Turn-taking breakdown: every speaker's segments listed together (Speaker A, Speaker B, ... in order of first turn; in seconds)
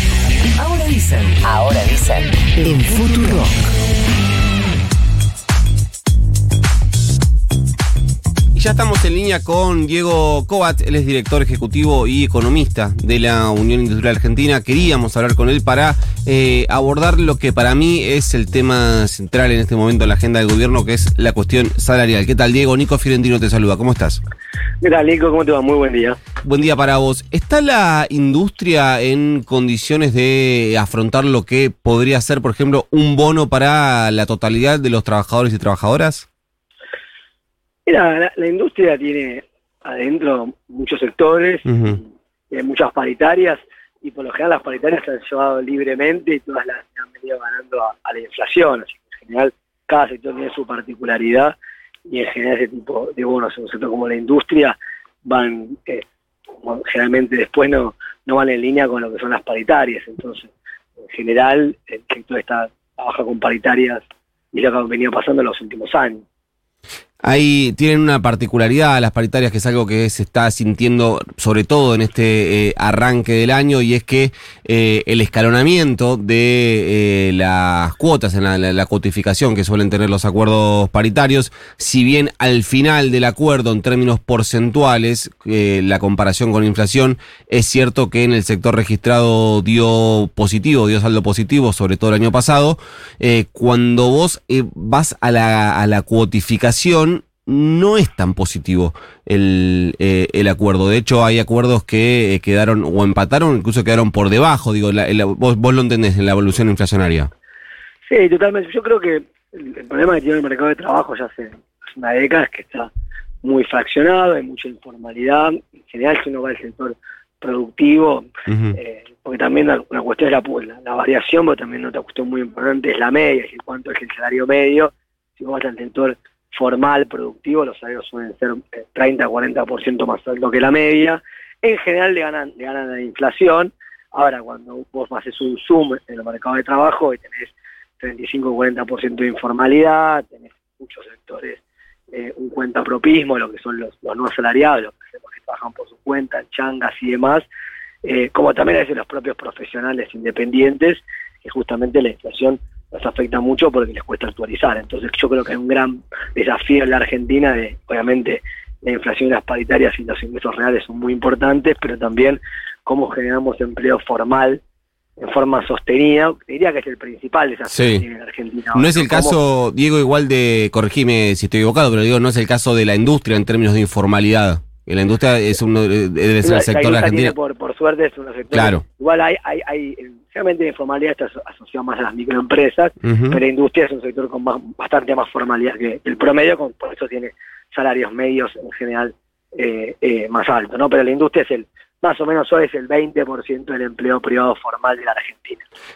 Speaker A: 0.6-3.5
Speaker B: 8.5-24.2, 26.4-36.2, 41.6-42.0, 67.2-107.3, 118.5-118.8, 167.7-168.0, 168.7-177.3, 178.5-178.8, 183.0-183.4
Speaker C: 24.8-26.2, 37.9-51.5, 52.1-56.0, 56.6-60.5, 61.0-64.0, 64.5-66.2, 108.0-112.9, 113.4-147.4, 148.0-164.6, 165.2-169.4, 176.4-195.6